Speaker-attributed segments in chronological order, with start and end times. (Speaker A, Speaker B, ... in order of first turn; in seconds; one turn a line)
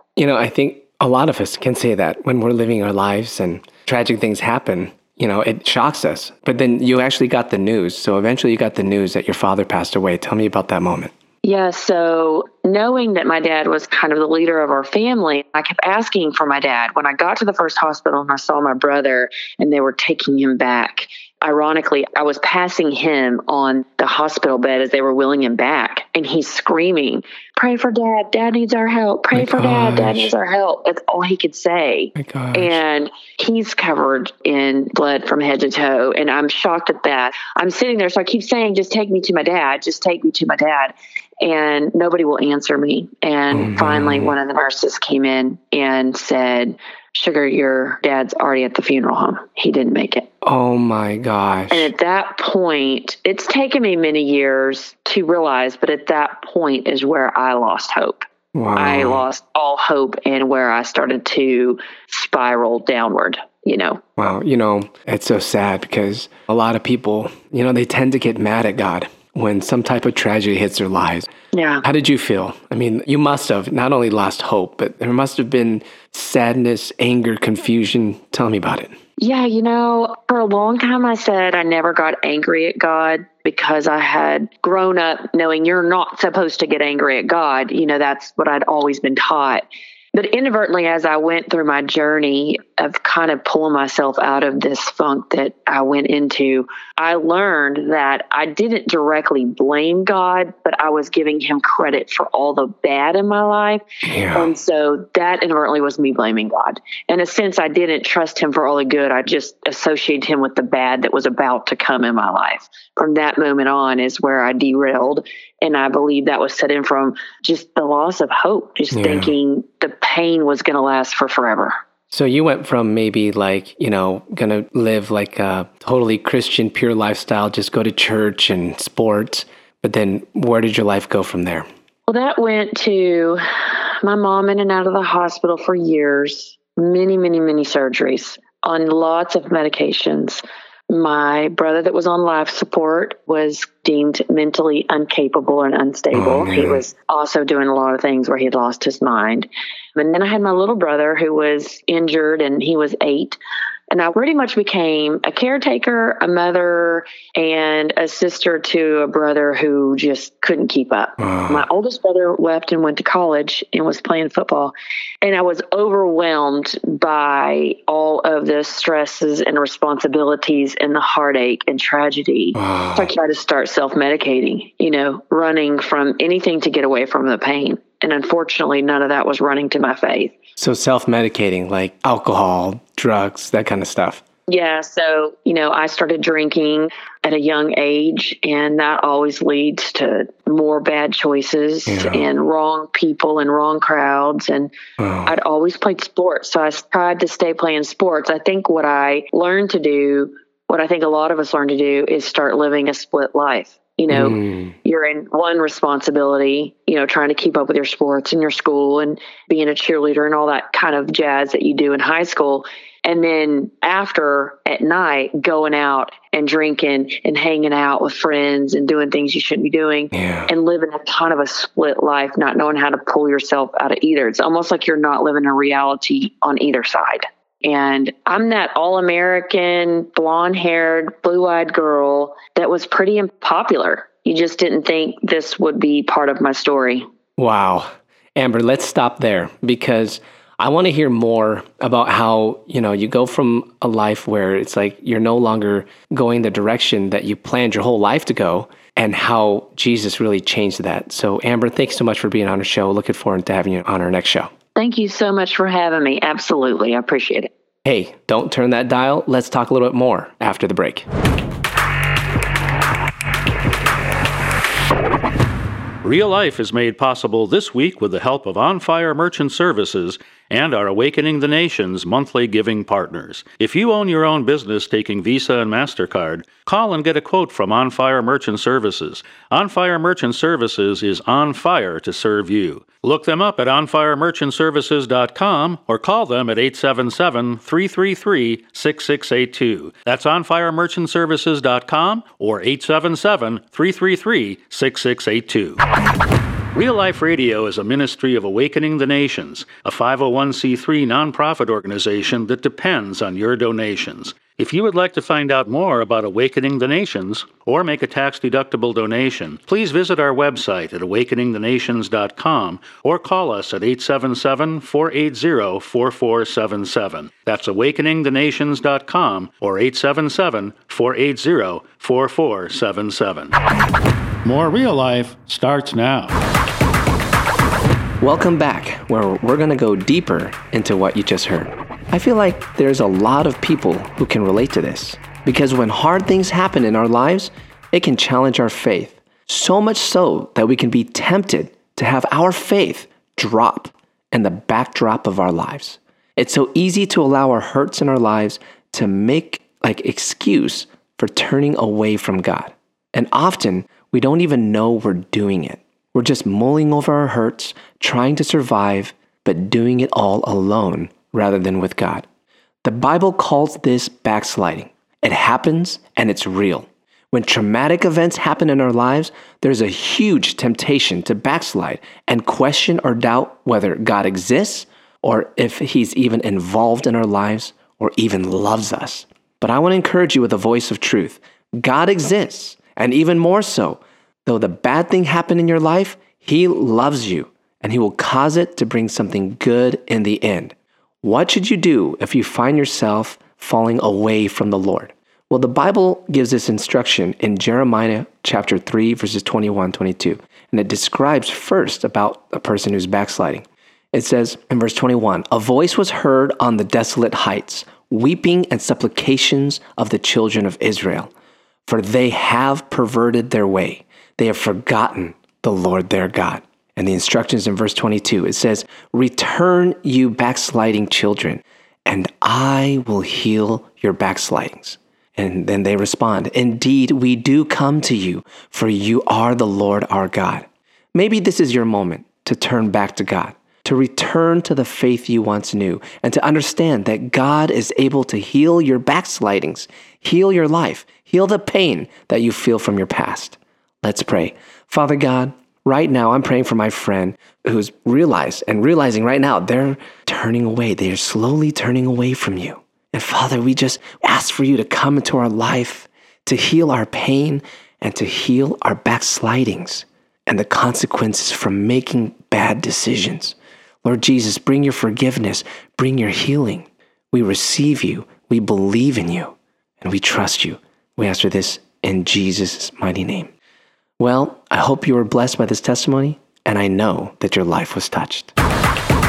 Speaker A: 0.1-11.1
Speaker B: 11.4-50.2
Speaker A: 29.3-30.3
Speaker A: 32.1-32.8
Speaker A: 43.5-44.3
Speaker A: 50.4-51.9
Speaker B: 51.7-58.2
Speaker A: 58.5-59.2
Speaker B: 58.8-64.0
Speaker A: 64.2-71.3
Speaker B: 71.5-71.8
Speaker A: 71.8-78.9
Speaker B: 79.2-103.8
Speaker A: 104.0-104.5
Speaker B: 104.3-121.7
Speaker A: 118.9-119.3
Speaker A: 122.1-131.6
Speaker B: 132.1-153.4
Speaker A: 146.1-146.8
Speaker B: 153.9-180.3
Speaker A: 161.2-161.6
Speaker A: 172.5-173.1
Speaker A: 180.6-184.2
Speaker B: 184.5-194.7
Speaker A: 191.9-192.2
Speaker A: 195.0-195.3
Speaker B: 195.3-237.0
Speaker A: 204.1-204.7
Speaker A: 220.1-220.5
Speaker A: 237.4-254.5
Speaker B: 254.8-257.5
Speaker A: 257.8-261.1
Speaker C: 266.0-295.8
Speaker C: 296.7-323.5
Speaker C: 324.4-326.3
Speaker A: 328.2-362.2
Speaker A: 362.8-411.3
Speaker A: 411.9-473.5
Speaker A: 474.2-478.5